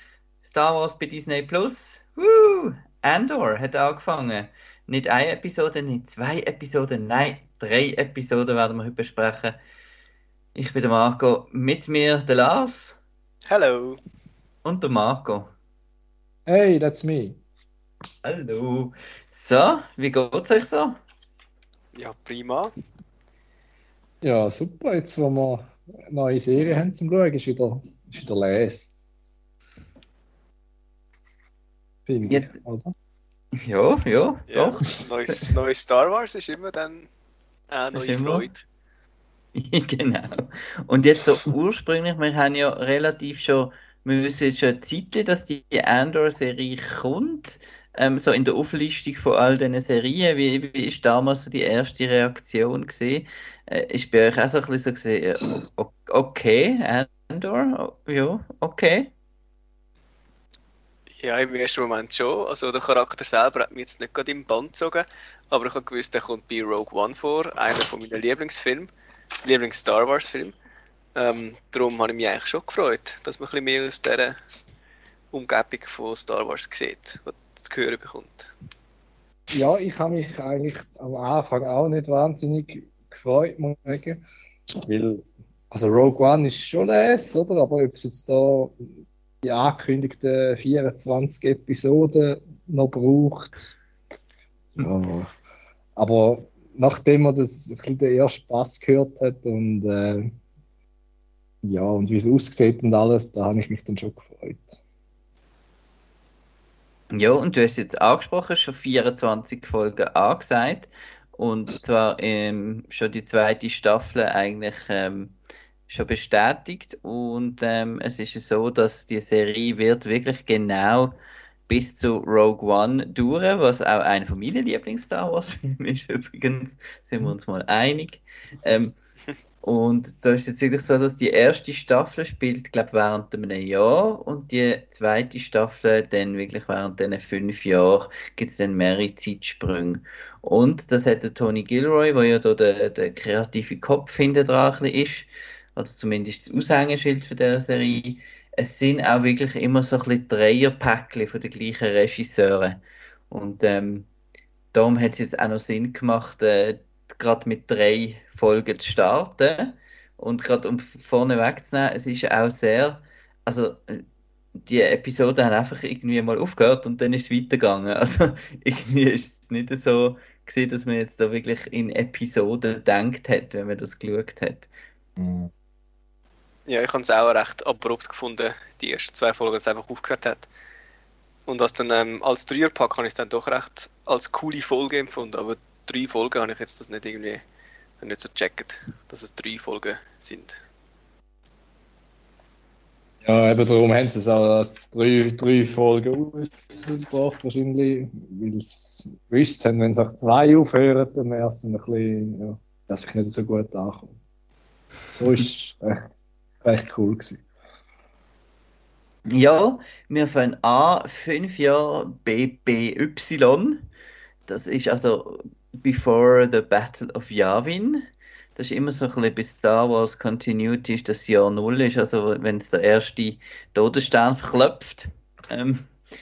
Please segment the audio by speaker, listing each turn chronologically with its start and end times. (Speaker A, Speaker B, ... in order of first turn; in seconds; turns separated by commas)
Speaker A: 0.4-9.6, Speaker A: 10.5-13.0, Speaker B: 13.5-14.0, Speaker A: 14.6-15.5, Speaker C: 16.5-17.4, Speaker A: 18.2-21.0, Speaker B: 21.9-22.7, Speaker C: 24.2-28.9, Speaker C: 32.0-32.9, Speaker A: 32.3-32.6, Speaker A: 33.6-35.5, Speaker B: 34.5-37.1, Speaker B: 37.7-38.6, Speaker A: 37.9-38.5, Speaker A: 39.5-59.1, Speaker B: 61.2-68.9, Speaker B: 69.4-70.5, Speaker B: 71.2-74.3, Speaker B: 75.3-78.5, Speaker C: 79.5-84.2, Speaker C: 84.8-88.8, Speaker C: 89.4-93.7, Speaker C: 94.8-95.3, Speaker C: 96.0-100.3, Speaker C: 101.6-104.8, Speaker A: 107.1-115.3, Speaker A: 115.9-121.1, Speaker A: 121.7-128.9, Speaker A: 129.6-152.8, Speaker A: 153.3-154.1, Speaker A: 154.7-164.0, Speaker A: 164.6-174.7, Speaker C: 175.2-175.5, Speaker B: 176.7-180.5, Speaker B: 181.5-187.4, Speaker B: 188.0-190.6, Speaker C: 193.2-204.2, Speaker C: 205.1-206.0, Speaker C: 206.6-207.4, Speaker A: 209.3-213.8, Speaker A: 214.5-218.0, Speaker A: 218.6-225.9